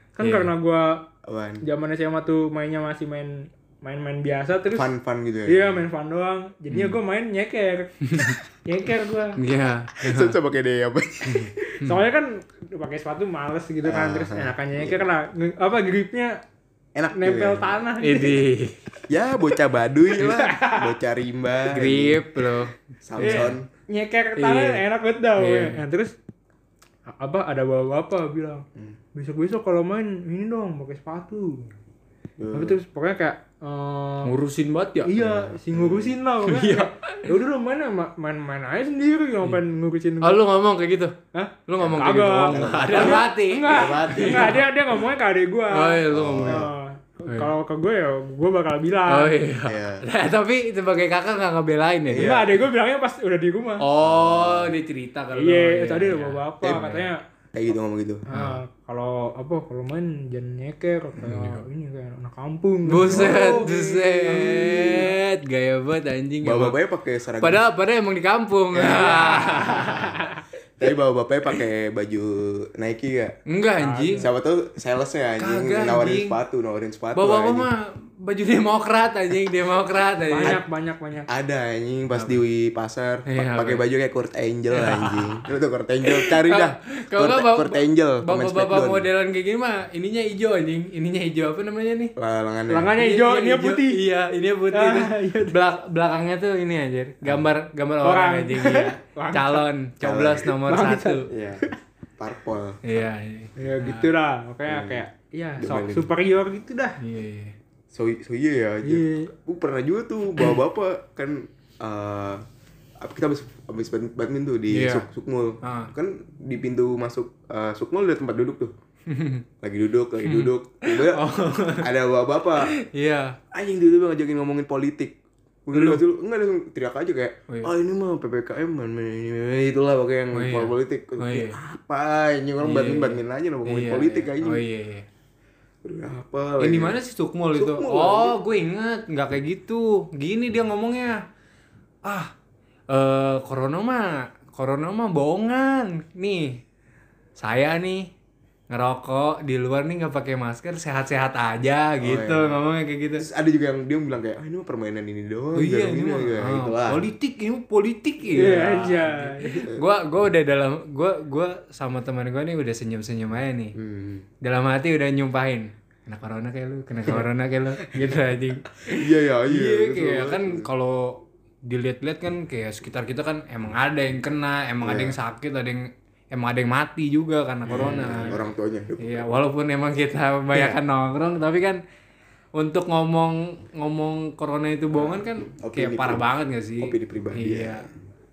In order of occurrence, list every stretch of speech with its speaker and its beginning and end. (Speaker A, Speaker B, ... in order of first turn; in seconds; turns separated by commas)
Speaker A: 0.2-1.0, Speaker B: 0.2-0.5, Speaker C: 1.3-1.6, Speaker A: 1.6-4.9, Speaker C: 4.7-5.8, Speaker A: 5.5-7.9, Speaker B: 6.7-7.0, Speaker B: 8.0-8.4, Speaker A: 8.7-9.4, Speaker B: 9.4-10.4, Speaker C: 10.0-11.5, Speaker B: 11.3-12.0, Speaker A: 11.7-16.4, Speaker C: 13.8-15.1, Speaker C: 17.0-17.8, Speaker A: 17.1-18.4, Speaker B: 18.0-18.8, Speaker C: 19.1-22.5, Speaker A: 20.2-21.0, Speaker B: 21.7-23.5, Speaker C: 23.1-23.7, Speaker A: 23.2-26.1, Speaker B: 24.4-24.8, Speaker B: 25.4-25.8, Speaker A: 27.1-31.7, Speaker C: 32.4-32.8, Speaker A: 32.5-34.3, Speaker B: 34.2-35.1, Speaker A: 35.1-40.4, Speaker C: 35.1-36.2, Speaker B: 36.4-37.3, Speaker B: 40.2-44.6, Speaker A: 41.3-49.4, Speaker C: 42.5-44.6, Speaker B: 45.7-46.7, Speaker C: 46.1-46.7, Speaker B: 49.1-52.3, Speaker C: 49.7-50.0, Speaker C: 52.1-52.6, Speaker A: 52.2-53.8, Speaker B: 53.8-57.1, Speaker C: 54.0-54.7, Speaker A: 55.4-57.2, Speaker C: 56.6-56.9, Speaker C: 57.5-58.2, Speaker A: 58.3-65.1, Speaker B: 58.3-58.6, Speaker C: 61.2-61.6, Speaker B: 62.9-66.8, Speaker C: 63.0-63.7, Speaker C: 66.4-67.6, Speaker B: 67.4-70.2, Speaker C: 68.7-70.1, Speaker C: 70.8-73.4, Speaker B: 73.5-74.2, Speaker A: 73.8-74.3, Speaker C: 74.2-77.7, Speaker B: 75.4-76.3, Speaker B: 77.1-80.6, Speaker A: 80.3-81.3, Speaker C: 81.3-89.1, Speaker B: 83.3-83.8, Speaker B: 84.7-85.5, Speaker B: 86.0-92.1, Speaker C: 92.2-93.0, Speaker A: 92.7-94.0, Speaker B: 92.9-101.3, Speaker A: 94.7-95.5, Speaker A: 98.0-99.6, Speaker C: 100.0-100.5, Speaker A: 100.5-101.8, Speaker C: 101.3-101.7, Speaker C: 102.2-102.8, Speaker B: 102.8-104.1, Speaker A: 103.6-107.0, Speaker C: 104.7-105.0, Speaker C: 105.6-106.1, Speaker B: 107.0-107.5, Speaker C: 107.9-112.4, Speaker A: 108.8-109.3, Speaker C: 113.0-118.7, Speaker B: 114.7-115.1, Speaker B: 115.6-115.9, Speaker B: 119.1-119.5, Speaker C: 119.6-121.2, Speaker B: 120.2-121.9, Speaker C: 121.8-122.7, Speaker B: 122.9-123.4, Speaker C: 123.5-134.6, Speaker B: 125.7-126.0, Speaker B: 130.3-131.6, Speaker B: 132.6-135.1, Speaker C: 135.8-137.0, Speaker B: 136.6-141.2, Speaker C: 137.5-138.4, Speaker B: 142.1-142.3, Speaker B: 142.9-146.6, Speaker B: 147.4-148.1, Speaker B: 148.7-153.2, Speaker C: 152.0-152.6, Speaker C: 153.2-157.1, Speaker B: 155.6-163.7, Speaker A: 158.3-159.7, Speaker C: 163.8-164.3, Speaker B: 164.4-178.4, Speaker C: 168.9-170.7, Speaker C: 174.8-175.2, Speaker C: 177.7-179.3, Speaker B: 179.0-181.8, Speaker C: 180.5-180.8, Speaker B: 182.6-187.8, Speaker C: 184.9-186.2, Speaker C: 186.8-187.9